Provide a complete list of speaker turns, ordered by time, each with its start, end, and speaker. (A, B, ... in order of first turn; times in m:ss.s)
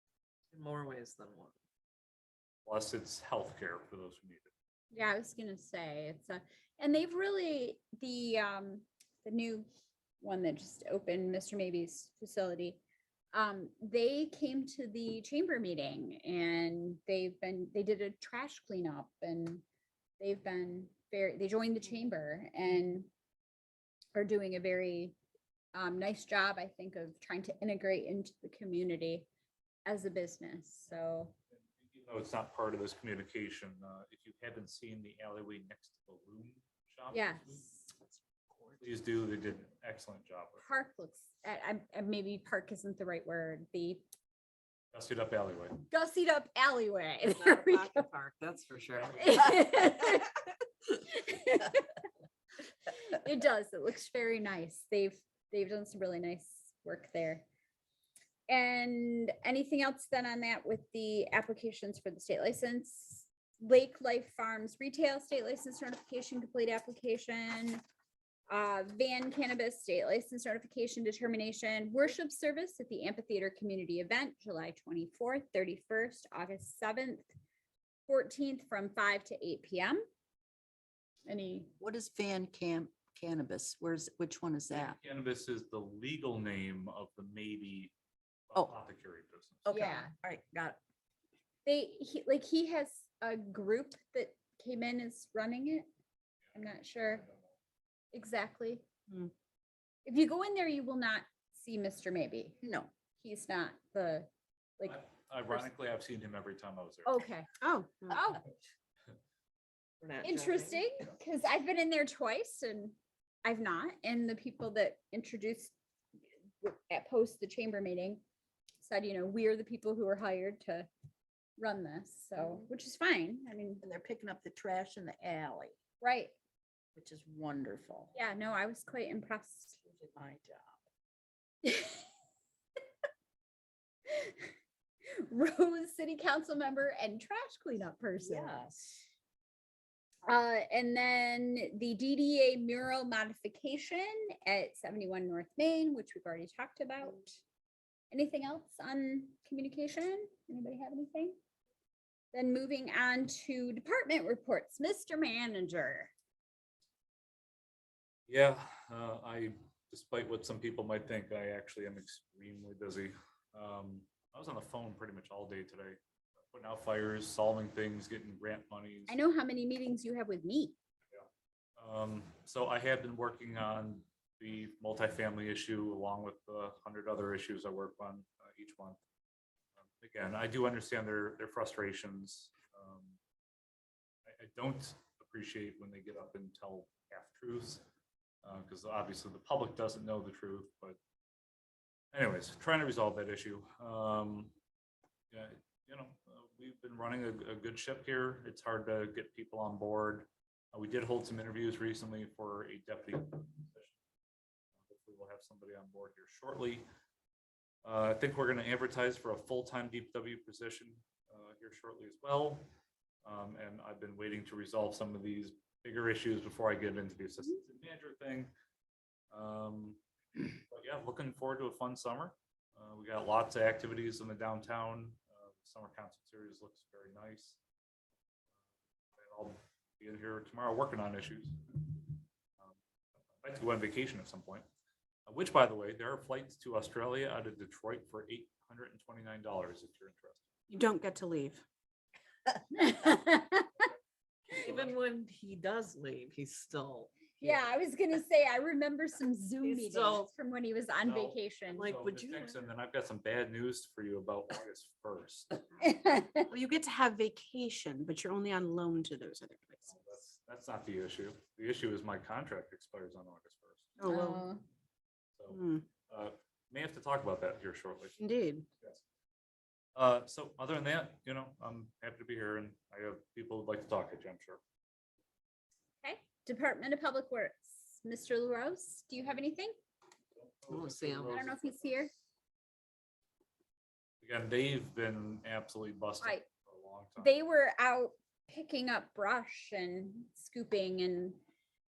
0:00.5-0:01.5 A
0:02.6-0:04.5 B
0:04.9-0:09.7 C
0:10.2-0:12.8 C
0:13.3-0:19.6 C
0:20.2-0:23.1 C
0:24.1-0:25.1 C
0:25.7-0:29.3 C
0:29.8-0:31.3 C
0:31.6-0:37.6 B
0:37.1-0:37.9 C
0:38.8-0:40.7 B
0:40.6-0:44.0 C
0:44.9-0:45.8 B
0:45.9-0:48.0 C
0:47.3-0:49.4 A
0:49.2-0:50.3 C
0:51.0-0:51.9 C
0:52.9-0:57.4 C
0:58.5-1:07.8 C
1:08.5-1:17.3 C
1:18.1-1:20.0 C
1:21.2-1:21.7 C
1:21.8-1:25.0 D
1:24.7-1:27.9 B
1:28.5-1:29.7 B
1:29.6-1:30.8 D
1:29.7-1:30.1 C
1:31.6-1:35.9 C
1:36.5-1:37.2 C
1:37.1-1:37.4 B
1:38.1-1:38.8 C
1:40.0-1:42.6 C
1:42.6-1:42.9 D
1:43.2-1:45.0 C
1:44.8-1:47.2 B
1:47.0-1:47.5 C
1:47.6-1:48.2 D
1:48.1-1:48.4 C
1:50.0-1:50.8 A
1:50.2-1:55.7 C
1:56.6-1:58.2 C
1:58.8-2:00.9 C
2:01.6-2:03.8 C
2:03.8-2:05.8 D
2:06.0-2:06.3 C
2:07.0-2:08.1 D
2:08.1-2:09.8 C
2:09.9-2:10.8 D
2:11.6-2:12.1 C
2:14.1-2:14.5 C
2:15.1-2:18.6 C
2:18.2-2:19.0 D
2:20.2-2:27.4 C
2:28.1-2:31.4 C
2:32.3-2:36.1 C
2:38.3-2:46.0 B
2:46.5-2:49.2 B
2:49.1-2:50.8 C
2:51.1-2:59.0 B
2:59.8-3:03.2 B
3:04.2-3:07.8 B
3:08.4-3:11.0 B
3:12.1-3:14.5 B
3:15.3-3:24.0 B
3:24.8-3:26.8 B
3:27.8-3:32.6 B
3:33.2-3:38.5 B
3:39.3-3:40.0 B
3:40.6-3:47.6 B
3:49.2-3:52.8 B
3:53.4-3:54.6 B
3:55.2-4:00.4 B
4:00.7-4:01.6 E
4:02.7-4:03.7 C
4:04.6-4:04.9 B
4:04.6-4:07.4 A
4:07.4-4:12.0 C
4:09.6-4:10.3 A
4:11.0-4:15.6 B
4:11.7-4:12.5 A
4:15.8-4:16.4 C
4:16.5-4:17.7 D
4:17.6-4:19.7 E
4:18.2-4:19.0 D
4:19.8-4:23.9 B
4:24.0-4:24.4 D
4:24.1-4:24.6 C
4:25.4-4:28.2 B
4:28.2-4:28.6 D
4:29.9-4:34.6 B
4:36.0-4:39.8 C
4:40.4-4:42.2 B
4:40.7-4:41.4 A
4:41.3-4:42.1 C
4:44.2-4:47.4 B
4:47.2-4:51.4 C